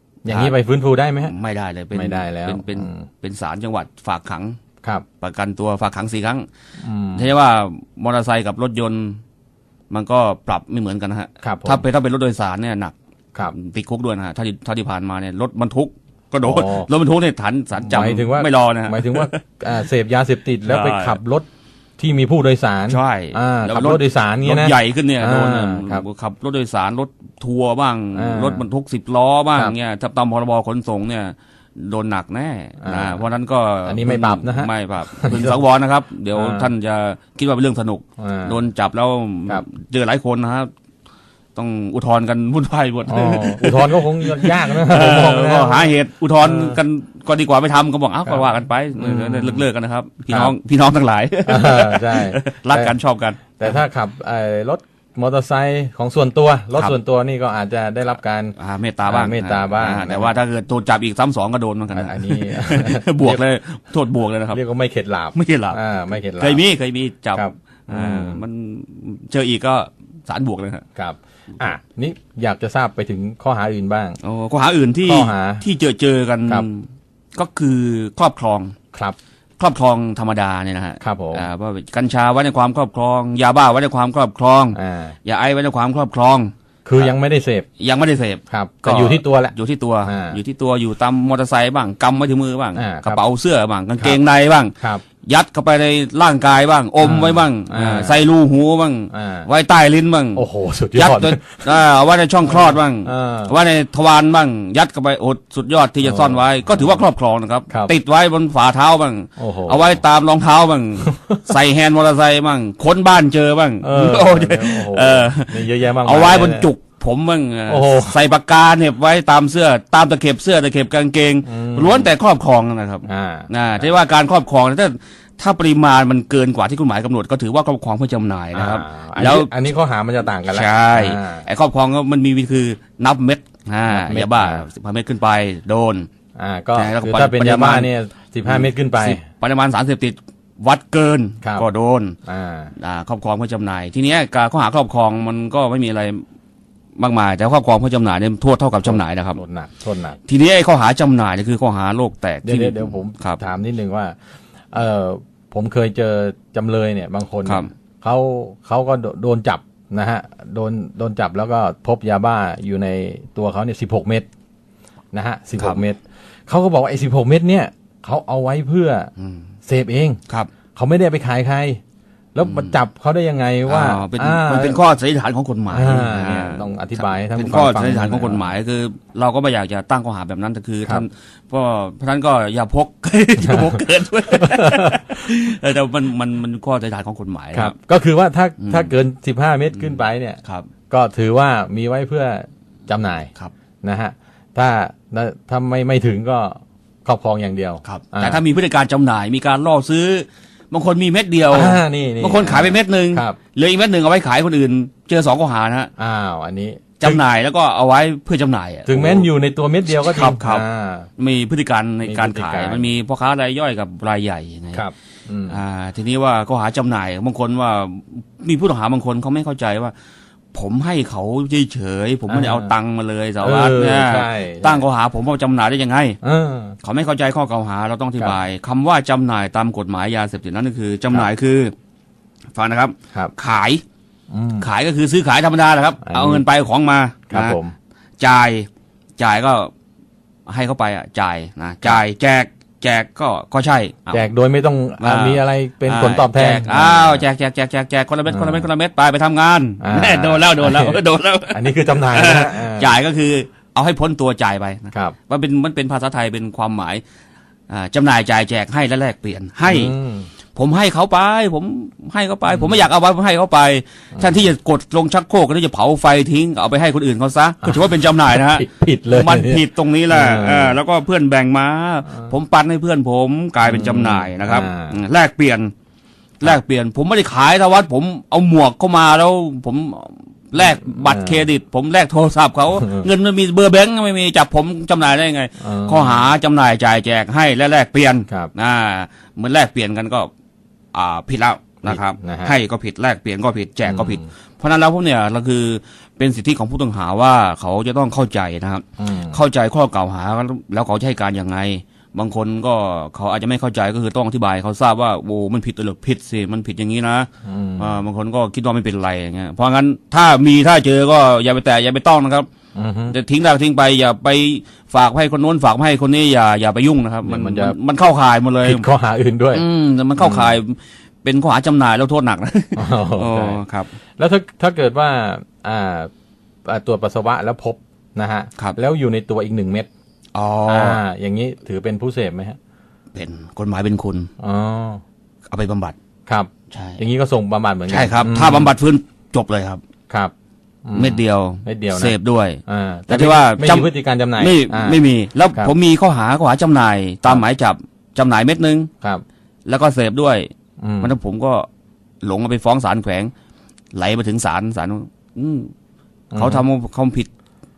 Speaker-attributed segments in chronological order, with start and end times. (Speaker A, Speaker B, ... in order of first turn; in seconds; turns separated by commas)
Speaker A: 0.2-1.3, Speaker B: 0.3-0.5, Speaker B: 1.2-4.6, Speaker A: 1.9-3.1, Speaker B: 5.2-6.5, Speaker A: 6.8-7.3, Speaker B: 7.1-9.2, Speaker B: 9.9-12.9, Speaker A: 11.4-11.8, Speaker B: 13.5-19.4, Speaker A: 16.4-16.9, Speaker A: 17.8-21.4, Speaker B: 20.6-21.2, Speaker A: 22.0-26.0, Speaker B: 22.9-40.7, Speaker A: 28.1-28.6, Speaker A: 32.8-33.2, Speaker A: 33.9-35.6, Speaker A: 36.3-36.7, Speaker A: 38.2-38.6, Speaker B: 41.5-53.7, Speaker A: 43.1-46.8, Speaker A: 48.3-49.6, Speaker A: 50.3-50.5, Speaker A: 51.4-53.0, Speaker A: 53.5-60.4, Speaker B: 58.6-64.6, Speaker A: 61.9-63.4, Speaker A: 64.5-66.6, Speaker B: 65.3-65.8, Speaker B: 66.4-70.8, Speaker A: 67.3-68.4, Speaker A: 71.0-74.2, Speaker B: 74.2-78.7, Speaker A: 75.0-75.6, Speaker B: 79.6-87.1, Speaker A: 81.0-81.5, Speaker A: 84.7-85.2, Speaker A: 86.8-87.7, Speaker B: 87.8-94.7, Speaker A: 88.5-90.4, Speaker A: 92.8-93.2, Speaker A: 94.8-95.0, Speaker B: 95.2-129.5, Speaker A: 97.0-98.2, Speaker A: 99.1-99.5, Speaker A: 100.3-101.7, Speaker A: 102.4-103.5, Speaker A: 106.0-107.0, Speaker A: 109.4-110.0, Speaker A: 111.0-111.4, Speaker A: 113.8-116.7, Speaker A: 117.7-118.2, Speaker A: 121.4-122.1, Speaker A: 123.1-123.9, Speaker A: 128.5-131.4, Speaker B: 130.5-136.1, Speaker A: 133.9-134.7, Speaker A: 136.4-139.2, Speaker B: 136.7-137.9, Speaker B: 138.4-142.1, Speaker A: 141.4-141.7, Speaker A: 142.2-142.7, Speaker B: 142.8-146.2, Speaker B: 147.0-149.4, Speaker A: 148.8-150.2, Speaker B: 150.2-153.4, Speaker A: 152.4-154.2, Speaker A: 154.7-164.3, Speaker B: 157.4-157.7, Speaker A: 165.1-169.1, Speaker B: 169.2-169.5, Speaker A: 169.7-170.2, Speaker A: 170.7-171.8, Speaker A: 172.3-174.8, Speaker B: 172.4-172.7, Speaker B: 173.7-187.7, Speaker A: 175.7-178.5, Speaker A: 183.4-183.8, Speaker A: 184.4-185.0, Speaker A: 187.5-193.3, Speaker B: 188.6-188.9, Speaker B: 189.8-190.7, Speaker A: 193.8-198.4, Speaker B: 197.8-205.9, Speaker A: 201.5-203.4, Speaker A: 206.0-207.2, Speaker B: 207.0-209.3, Speaker A: 208.9-211.1, Speaker B: 209.9-210.6, Speaker B: 211.2-214.8, Speaker A: 212.1-212.9, Speaker A: 214.7-215.6, Speaker B: 215.5-219.9, Speaker B: 220.5-226.2, Speaker A: 222.3-222.7, Speaker A: 223.4-224.8, Speaker A: 226.2-226.8, Speaker B: 226.8-231.7, Speaker B: 232.5-233.8, Speaker A: 234.3-234.7, Speaker B: 234.6-237.6, Speaker A: 236.0-236.4, Speaker A: 237.3-237.7, Speaker B: 238.2-239.7, Speaker B: 240.4-244.2, Speaker A: 244.1-247.2, Speaker B: 245.0-257.0, Speaker A: 248.3-248.7, Speaker A: 249.8-252.9, Speaker B: 257.7-259.9, Speaker A: 259.7-260.3, Speaker B: 260.5-275.7, Speaker A: 262.5-262.8, Speaker A: 267.6-270.8, Speaker A: 273.6-275.0, Speaker B: 276.4-290.3, Speaker A: 280.6-281.5, Speaker A: 282.8-283.1, Speaker A: 285.6-286.3, Speaker B: 290.9-312.5, Speaker A: 291.9-292.5, Speaker A: 293.9-294.3, Speaker A: 299.0-299.4, Speaker A: 307.4-308.0, Speaker A: 312.7-313.1, Speaker B: 313.1-318.8, Speaker A: 317.3-317.8, Speaker A: 318.6-319.6, Speaker B: 319.5-323.9, Speaker A: 320.2-320.5, Speaker A: 322.7-323.6, Speaker A: 324.2-326.1, Speaker A: 326.6-329.9, Speaker B: 330.3-331.0, Speaker A: 330.7-332.6, Speaker B: 333.1-334.3, Speaker A: 334.4-335.0, Speaker B: 335.5-335.9, Speaker A: 336.3-338.7, Speaker B: 336.7-337.0, Speaker B: 337.9-339.8, Speaker A: 340.8-345.7, Speaker B: 340.9-348.9, Speaker B: 349.6-350.5, Speaker A: 350.8-351.1, Speaker B: 351.0-351.6, Speaker B: 352.2-353.3, Speaker B: 353.9-355.7, Speaker A: 356.3-356.6, Speaker B: 356.3-357.3